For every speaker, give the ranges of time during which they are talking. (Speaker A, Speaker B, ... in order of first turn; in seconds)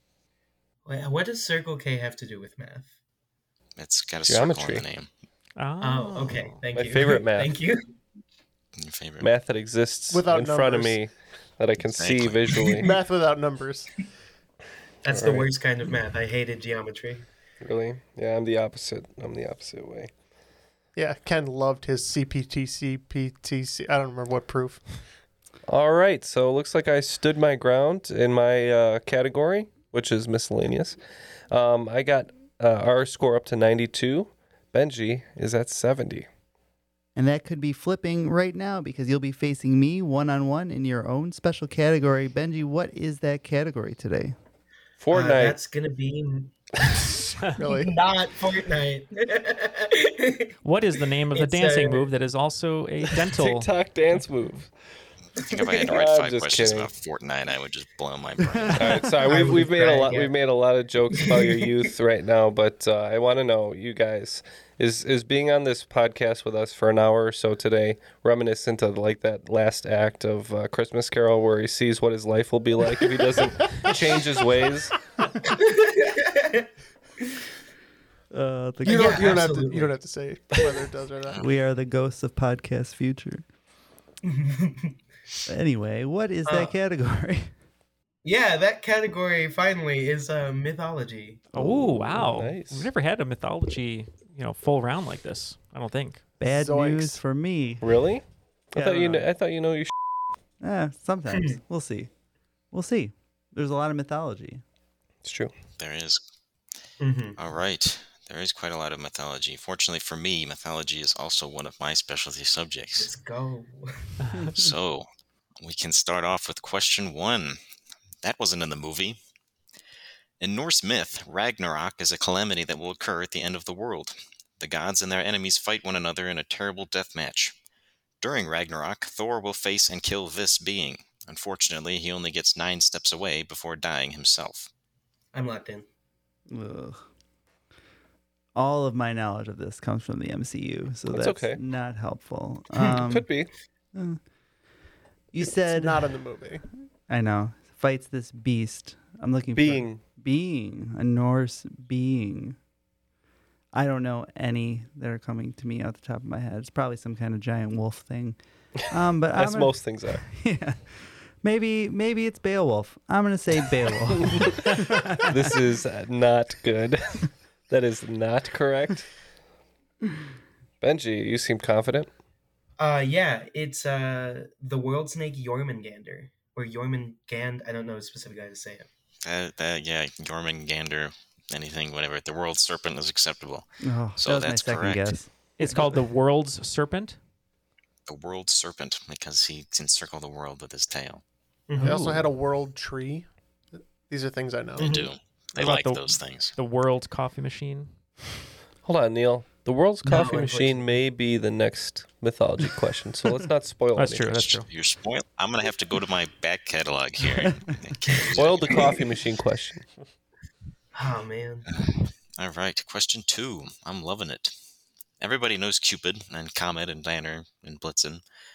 Speaker A: 0.8-2.9, 5.8-7.9, 15.0-17.2, 45.1-46.5, 47.6-50.5, 51.3-52.1, 59.2-60.5, 61.1-61.8, 75.4-76.7, 78.8-80.0, 84.2-85.0, 86.5-86.7, 88.2-91.5, 107.0-107.4, 113.0-114.0, 135.3-135.9, 172.8-178.9, 191.7-192.1, 194.8-195.1, 200.0-200.9, 210.9-211.7
Speaker B: 3.8-5.1, 8.8-9.3, 12.0-12.7, 55.4-59.1, 105.8-106.2, 107.4-113.1, 114.5-115.1, 115.6-117.6, 118.2-119.2, 120.4-127.6, 128.2-134.7, 179.2-185.2, 188.1-191.2, 194.8-196.5, 204.3-208.8, 211.7-214.5, 215.2-218.2
Speaker C: 4.3-4.8, 6.7-7.5, 9.2-12.9, 15.1-15.5, 17.6-20.1, 25.7-31.0, 31.5-36.3, 45.0-45.6, 53.3-54.7, 55.9-56.9, 58.7-74.9, 91.5-92.9, 97.8-99.9, 105.2-105.5, 141.1-141.6, 142.9-143.5, 149.6-150.0, 159.4-160.2, 164.2-164.8, 165.3-169.1, 170.8-172.1, 198.8-204.4, 208.3-209.8
Speaker D: 5.6-6.6, 50.6-53.7, 91.5-96.2, 114.2-114.5, 185.6-187.2, 191.8-192.2, 195.6-197.9, 204.0-204.7
Speaker E: 10.1-11.0, 12.8-13.9, 21.0-24.8, 47.5-47.9, 78.8-81.5, 96.5-97.2, 145.4-146.6, 191.8-193.3, 194.1-194.9
Speaker F: 37.2-44.4, 58.4-59.0, 78.3-79.3, 81.4-83.4, 85.5-87.5, 96.4-97.9, 98.8-99.2, 100.6-102.1, 102.7-104.6, 136.5-137.0, 138.6-143.3, 143.9-144.2, 145.3-146.1, 147.1-152.6, 153.7-158.4, 158.9-165.6, 183.8-186.0